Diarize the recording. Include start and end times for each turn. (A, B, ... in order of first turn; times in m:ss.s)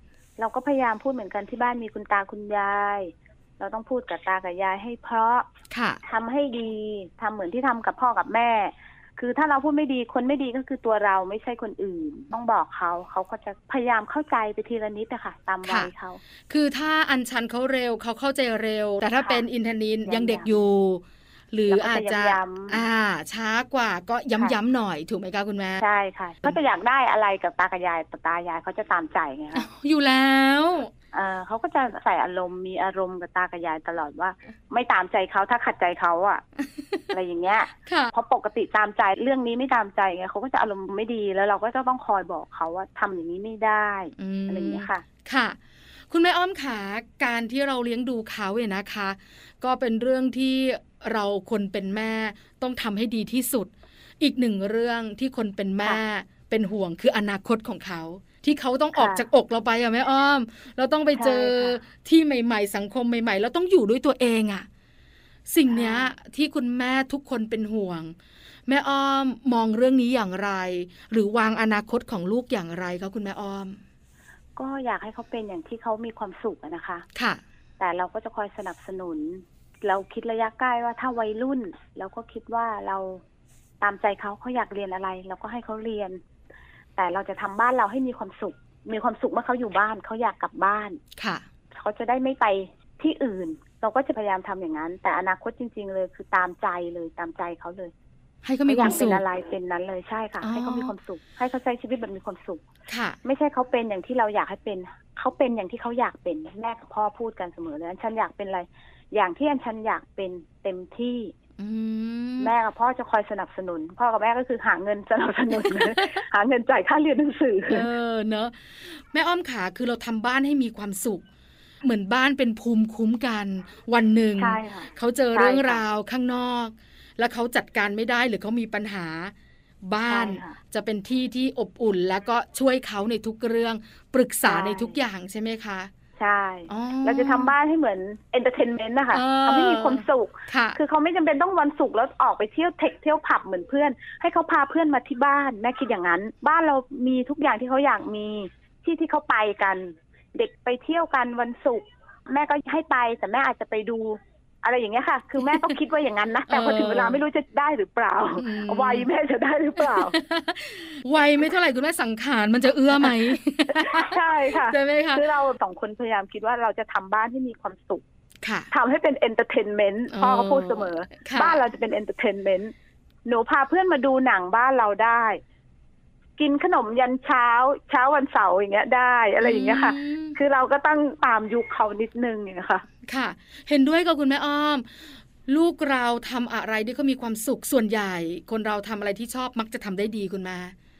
0:00.4-0:05.5 A
0:05.7-0:06.0 B
0:06.0-0:16.2 A
0:15.6-0:15.9 B
0:16.5-0:25.8 B
0:19.2-0:19.4 A
0:20.0-0:20.5 A
0:21.7-0:22.8 A
0:25.8-0:29.7 A
0:29.6-0:30.9 B
0:31.1-0:36.4 A
0:37.1-0:45.0 A
0:37.9-0:38.1 B
0:44.2-0:45.6 B
0:46.1-1:04.7 B
0:59.0-0:59.2 A
1:01.2-1:01.8 A
1:05.5-1:08.2 B
1:05.7-1:06.1 A
1:08.7-1:13.8 B
1:14.6-1:17.1 A
1:17.2-1:17.4 B
1:17.8-1:23.2 A
1:23.8-1:26.2 A
1:27.0-1:31.0 A
1:31.2-1:31.4 B
1:31.7-1:37.9 A
1:38.4-1:39.2 B
1:38.7-1:42.6 A
1:40.4-1:40.9 B
1:42.9-1:43.2 B
1:43.2-1:51.3 A
1:51.6-1:52.5 B
1:52.4-1:57.9 A
1:55.6-1:56.2 B
1:57.7-2:01.2 B
2:01.8-2:15.9 B
2:04.4-2:05.8 A
2:10.1-2:10.6 A
2:14.5-2:15.0 A
2:16.2-2:40.2 A
2:16.7-2:17.5 B
2:19.1-2:20.8 B
2:36.5-2:37.2 B
2:38.4-2:39.1 B
2:39.8-2:45.2 B
2:43.7-2:48.0 A
2:48.4-2:48.7 B
2:48.7-2:52.7 A
2:50.1-2:51.6 B
2:53.3-2:55.4 A
2:56.4-3:02.8 A
2:59.4-3:00.4 B
3:03.0-3:10.8 B